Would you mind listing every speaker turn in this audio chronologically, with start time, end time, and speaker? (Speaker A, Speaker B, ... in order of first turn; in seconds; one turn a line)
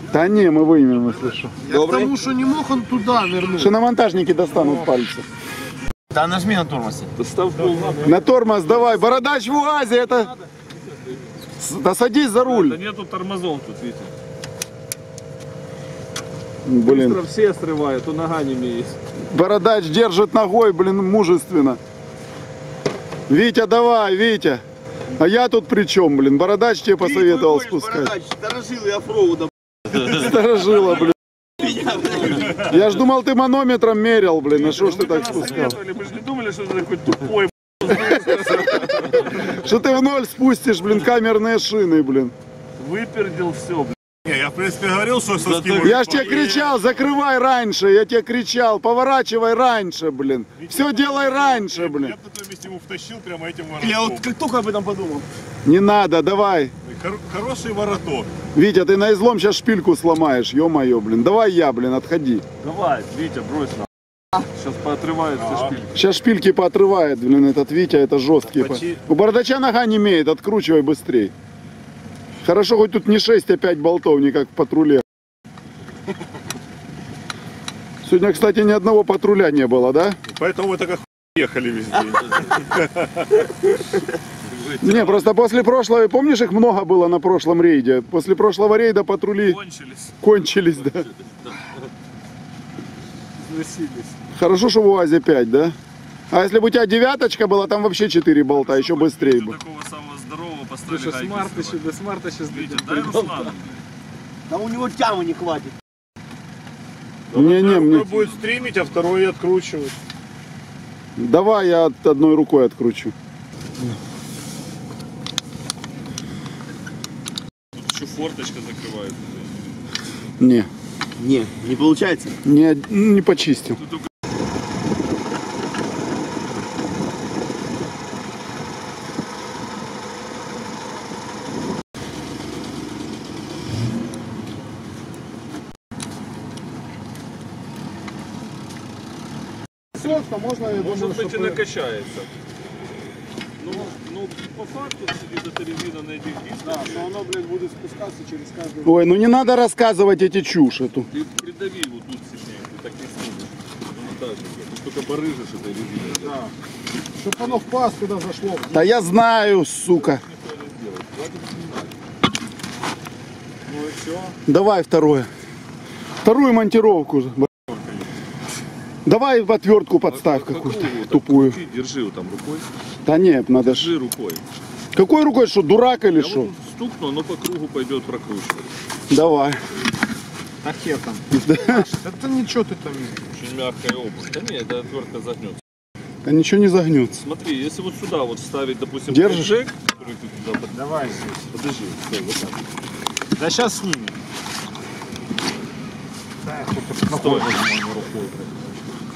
Speaker A: 0.1-1.6
Speaker B: 1.6-2.1
Speaker C: 1.6-3.7
Speaker A: 3.6-5.2
Speaker B: 6.1-7.1
Speaker D: 7.2-8.2
Speaker C: 7.6-8.9
Speaker E: 7.8-8.1
Speaker A: 8.0-10.3
Speaker A: 11.6-12.8
Speaker D: 12.4-14.1
Speaker A: 16.6-17.2
Speaker D: 16.8-19.0
Speaker A: 19.3-21.8
Speaker A: 23.3-24.6
Speaker A: 25.1-28.1
Speaker B: 27.0-30.1
Speaker A: 29.9-31.1
Speaker B: 31.6-32.6
Speaker A: 32.5-35.8
Speaker D: 34.6-39.1
Speaker A: 37.9-42.3
Speaker D: 42.8-43.9
Speaker E: 44.2-46.7
Speaker D: 45.7-46.8
Speaker A: 45.8-52.1
Speaker E: 50.6-54.3
Speaker B: 53.8-55.3
Speaker A: 55.6-56.7
Speaker E: 56.8-58.3
Speaker A: 58.5-62.4
Speaker D: 62.6-63.9
Speaker D: 64.4-65.9
Speaker E: 65.4-65.8
Speaker A: 65.9-71.3
Speaker A: 72.4-75.0
Speaker A: 78.0-80.2
Speaker E: 80.3-83.2
Speaker D: 84.6-85.2
Speaker A: 84.8-89.6
Speaker D: 89.4-90.1
Speaker A: 90.2-91.1
Speaker C: 93.4-94.2
Speaker A: 94.3-95.7
Speaker A: 96.3-99.6
Speaker D: 98.5-101.8
Speaker C: 100.9-103.5
Speaker D: 102.5-103.8
Speaker B: 104.5-105.7
Speaker E: 107.3-109.9
Speaker D: 107.3-109.0
Speaker A: 107.3-108.1
Speaker A: 111.2-113.1
Speaker D: 117.7-119.8
Speaker A: 120.4-120.7
Speaker B: 121.2-122.3
Speaker A: 122.4-123.8
Speaker C: 139.9-141.6
Speaker D: 140.7-142.3
Speaker D: 143.6-147.1
Speaker C: 146.6-149.0
Speaker A: 148.8-151.1
Speaker D: 151.1-156.4
Speaker C: 156.1-156.5
Speaker C: 157.2-158.9
Speaker A: 158.7-160.2
Speaker D: 160.0-161.9
Speaker D: 163.7-164.3
Speaker A: 164.4-165.3
Speaker A: 166.2-167.5
Speaker E: 167.7-168.0
Speaker A: 169.1-171.6
Speaker D: 170.1-172.7
Speaker A: 173.1-173.9
Speaker D: 173.6-174.4
Speaker A: 174.9-176.5
Speaker D: 176.1-178.7
Speaker A: 179.1-179.6
Speaker C: 180.6-183.2
Speaker A: 181.3-181.9
Speaker D: 183.3-185.6
Speaker A: 186.2-187.2
Speaker D: 187.2-190.8
Speaker A: 189.1-189.5
Speaker C: 190.7-191.4
Speaker D: 191.5-192.6
Speaker C: 193.3-194.2
Speaker C: 196.4-198.5
Speaker D: 197.0-197.5